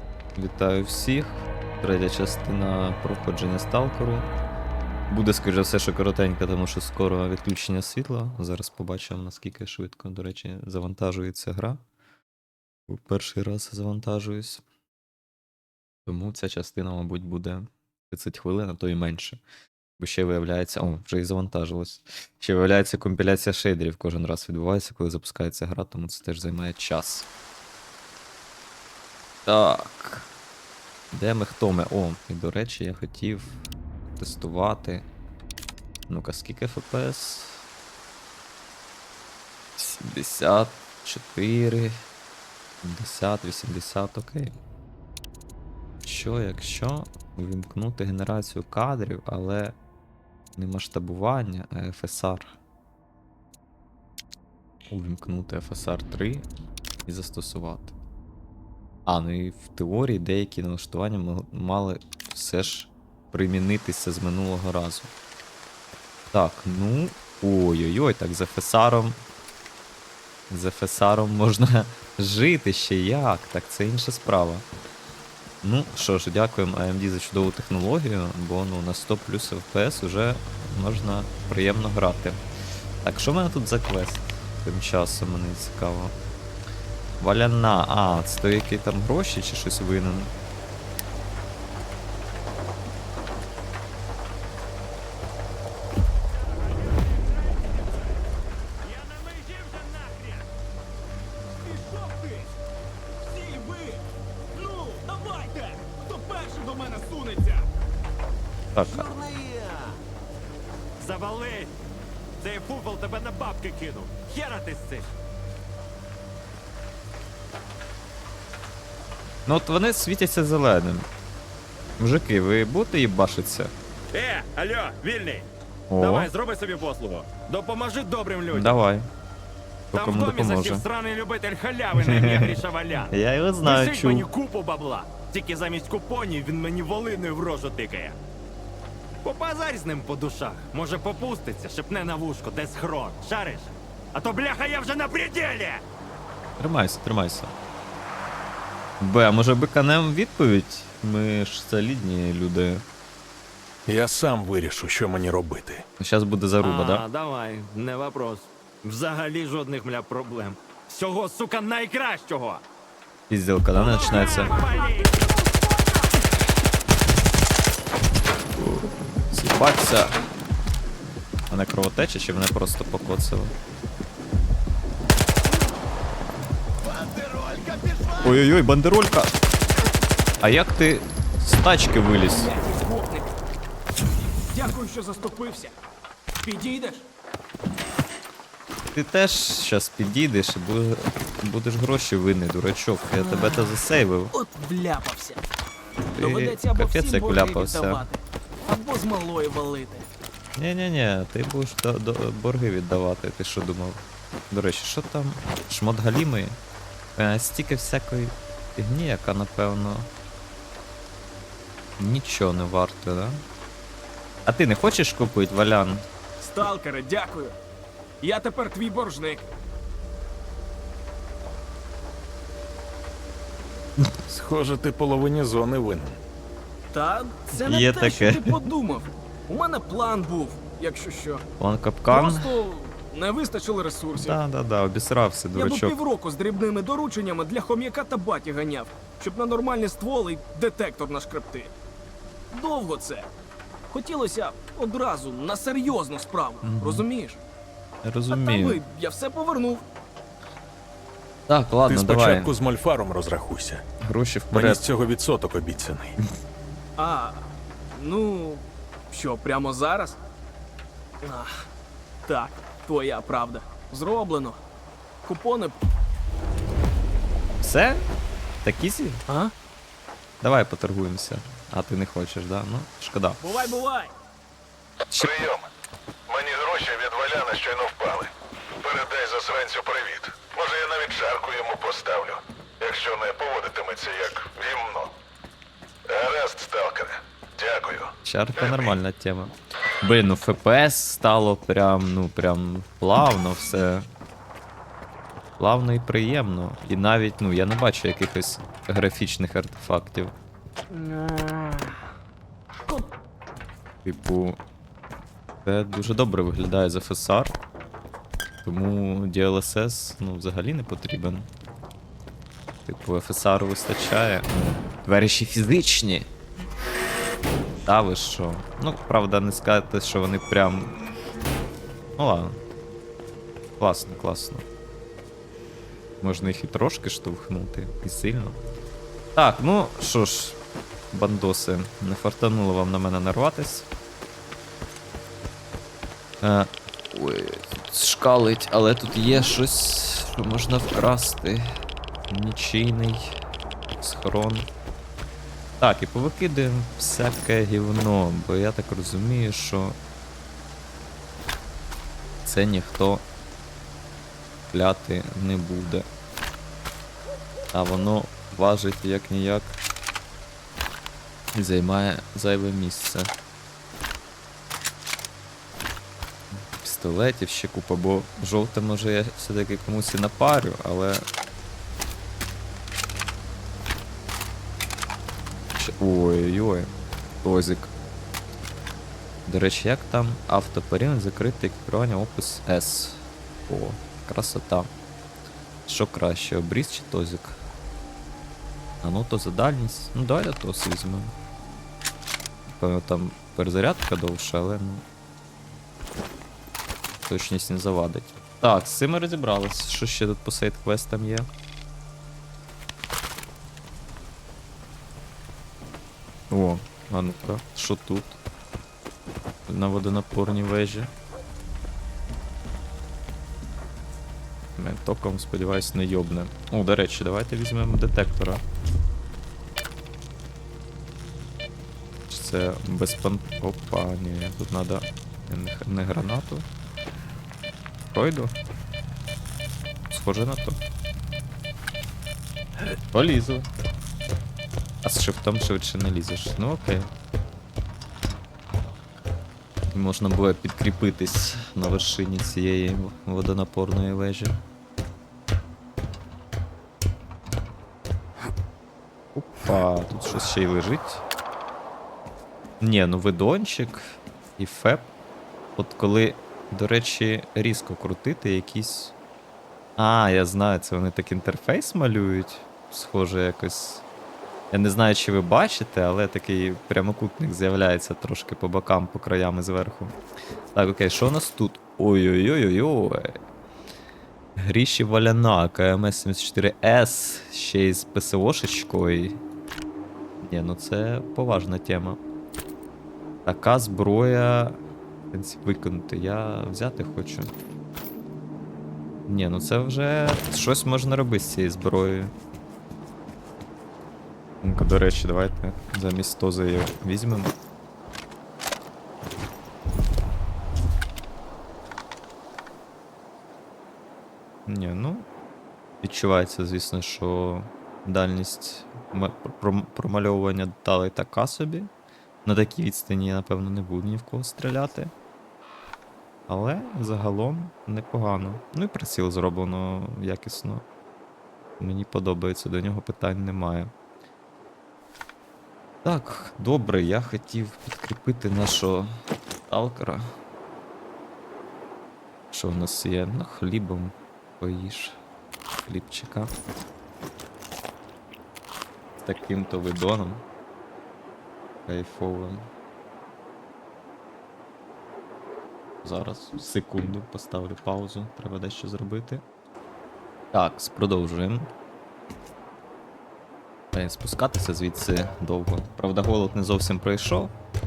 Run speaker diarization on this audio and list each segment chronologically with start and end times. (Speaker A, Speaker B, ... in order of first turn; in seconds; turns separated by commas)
Speaker A: 0.3-4.3, Speaker A: 5.1-11.8, Speaker A: 12.9-14.6, Speaker A: 16.1-19.4, Speaker A: 20.0-27.3, Speaker A: 29.4-30.3, Speaker A: 31.1-33.6, Speaker A: 34.1-35.0, Speaker A: 36.1-37.6, Speaker A: 39.8-41.9, Speaker A: 42.8-44.5, Speaker A: 46.0-49.8, Speaker A: 50.5-52.5, Speaker A: 54.9-56.5, Speaker A: 57.0-57.9, Speaker A: 59.0-65.1, Speaker A: 66.3-69.2, Speaker A: 70.5-74.7, Speaker A: 75.6-82.4, Speaker A: 83.0-86.1, Speaker A: 87.2-90.3, Speaker B: 96.3-98.2, Speaker B: 98.8-100.5, Speaker C: 101.6-102.5, Speaker C: 103.2-107.7, Speaker A: 108.7-109.1, Speaker B: 108.8-110.0, Speaker B: 111.0-111.7, Speaker B: 112.4-115.1, Speaker A: 119.5-121.1, Speaker A: 122.0-123.7, Speaker B: 124.1-128.8, Speaker A: 125.9-126.3, Speaker A: 128.5-129.1, Speaker A: 129.9-130.8, Speaker B: 129.9-133.1, Speaker A: 132.0-132.6, Speaker A: 133.1-134.2, Speaker B: 133.6-138.2, Speaker B: 139.2-145.8, Speaker A: 146.6-147.5, Speaker A: 149.0-152.8, Speaker D: 153.8-155.8, Speaker A: 156.0-157.0, Speaker B: 156.6-162.6, Speaker A: 163.3-164.5, Speaker B: 163.7-165.1, Speaker C: 164.2-166.1, Speaker A: 168.6-170.2, Speaker A: 171.5-173.5, Speaker C: 176.9-178.1, Speaker A: 178.2-179.4, Speaker A: 180.4-182.5, Speaker C: 182.3-183.3, Speaker C: 184.5-185.7, Speaker C: 186.4-187.0, Speaker A: 188.9-194.3, Speaker C: 194.3-195.4, Speaker C: 196.1-200.1, Speaker A: 196.2-198.0, Speaker A: 200.6-206.6, Speaker A: 207.2-210.1, Speaker A: 212.0-213.4, Speaker A: 214.4-216.0, Speaker C: 216.4-217.5, Speaker C: 218.2-219.4, Speaker D: 224.2-226.2, Speaker C: 226.9-231.4, Speaker A: 227.6-228.6, Speaker A: 231.6-232.5, Speaker C: 232.1-234.4, Speaker A: 234.2-235.9, Speaker C: 235.5-241.7, Speaker C: 242.5-243.3, Speaker C: 243.9-247.4, Speaker A: 246.6-247.0, Speaker A: 248.0-248.8, Speaker C: 248.3-249.8, Speaker A: 251.5-252.5, Speaker D: 251.8-253.8, Speaker A: 254.0-254.8, Speaker D: 254.5-256.2, Speaker C: 257.0-260.2, Speaker C: 261.2-261.6, Speaker C: 262.3-264.6, Speaker C: 265.2-265.7, Speaker A: 267.6-268.1, Speaker A: 268.6-269.2, Speaker C: 269.3-269.5, Speaker A: 270.4-273.4, Speaker C: 273.4-274.1, Speaker E: 275.1-275.7, Speaker E: 276.3-285.1, Speaker E: 286.1-288.9, Speaker A: 288.2-294.1, Speaker A: 295.6-300.3, Speaker C: 300.9-302.0, Speaker A: 304.0-304.6, Speaker A: 305.6-307.5, Speaker A: 308.6-311.5, Speaker A: 312.9-316.3, Speaker A: 317.9-320.9, Speaker A: 322.2-322.6, Speaker A: 323.8-324.6, Speaker A: 326.2-328.6, Speaker A: 329.4-330.6, Speaker A: 331.1-333.9, Speaker A: 336.4-341.6, Speaker A: 342.3-343.4, Speaker A: 344.0-344.7, Speaker A: 345.8-350.0, Speaker A: 352.4-353.2, Speaker A: 354.7-356.1, Speaker A: 357.7-359.8, Speaker A: 361.5-363.3, Speaker A: 366.5-371.2, Speaker A: 375.8-376.9, Speaker A: 377.4-377.9, Speaker A: 379.4-384.9, Speaker A: 385.9-387.6, Speaker A: 389.0-391.3, Speaker A: 392.7-395.0, Speaker A: 397.2-401.5, Speaker A: 406.5-408.4, Speaker A: 409.7-411.1, Speaker A: 414.8-418.6, Speaker A: 422.3-426.6, Speaker A: 428.1-428.5, Speaker A: 430.1-430.8, Speaker A: 433.1-433.7, Speaker A: 435.0-437.1, Speaker A: 439.9-444.6, Speaker A: 449.3-451.2, Speaker A: 452.8-455.1, Speaker A: 455.8-459.1, Speaker A: 460.0-464.0, Speaker A: 464.7-470.1, Speaker A: 470.7-473.4, Speaker A: 474.6-479.4, Speaker A: 480.4-482.2, Speaker A: 483.4-484.8, Speaker A: 485.3-487.5, Speaker A: 489.3-492.3, Speaker A: 494.6-497.5, Speaker A: 504.6-505.2, Speaker A: 506.0-511.9, Speaker A: 512.4-515.1, Speaker A: 516.5-520.8, Speaker A: 521.8-523.9, Speaker A: 526.0-529.1, Speaker A: 529.7-530.3, Speaker A: 532.5-535.2, Speaker A: 535.9-536.5, Speaker A: 539.2-540.4, Speaker A: 541.9-542.7, Speaker A: 546.0-549.4, Speaker A: 550.5-551.7, Speaker A: 553.9-557.5